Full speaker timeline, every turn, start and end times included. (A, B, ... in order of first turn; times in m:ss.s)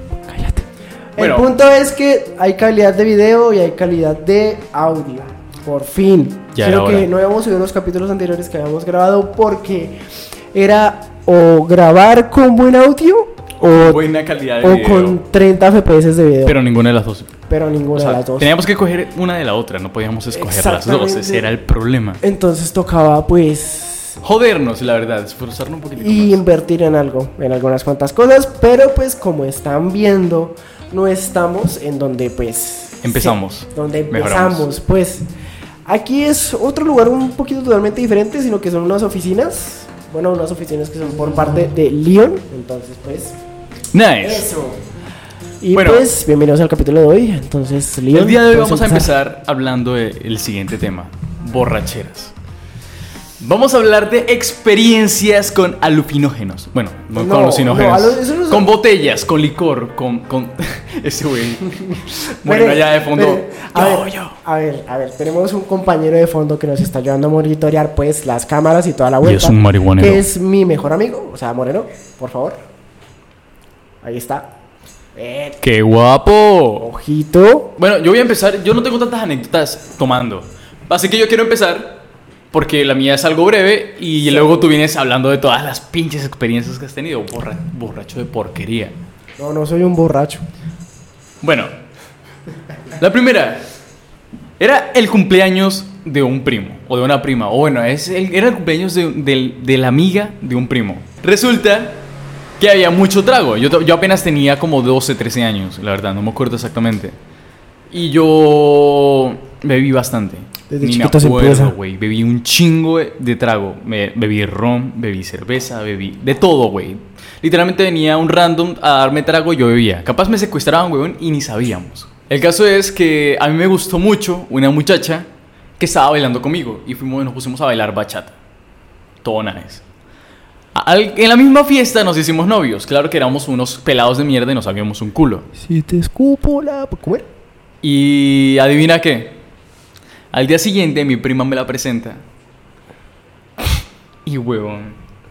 0:00.3-0:00.6 A
0:01.2-0:10.0 A
0:01.2-0:01.5 B
0:06.5-0:07.1 B
0:10.5-0:14.0 A
0:13.8-0:15.2 B
0:14.6-0:16.6 A
0:16.4-0:17.3 B
0:17.5-0:18.5 A
0:17.9-0:22.2 B
0:20.3-0:21.5 A
0:22.2-0:24.2 A
0:24.2-0:26.4 B
0:26.0-0:35.3 A
0:33.0-0:34.7 B
0:35.8-0:43.4 A
0:43.9-0:44.5 B
0:44.2-0:44.8 A
0:45.6-0:49.1 A
0:45.7-0:46.1 B
0:48.1-0:52.3 B
0:53.4-1:04.4 B
0:57.1-0:58.7 A
1:02.4-1:12.6 A
1:09.2-1:10.2 B
1:14.0-1:14.5 A
1:15.2-1:15.6 A
1:15.6-1:16.9 B
1:16.8-1:17.7 A
1:17.8-1:22.0 B
1:22.5-1:29.0 B
1:24.2-1:24.6 A
1:29.4-1:30.4 A
1:31.4-1:31.7 B
1:33.0-1:33.6 B
1:34.6-1:42.0 B
1:42.6-1:47.2 B
1:47.9-2:08.4 B
1:50.7-1:51.8 A
2:09.2-2:09.8 B
2:10.7-2:15.5 B
2:15.6-2:17.3 A
2:17.8-2:19.4 B
2:20.3-2:22.2 B
2:24.2-2:25.0 B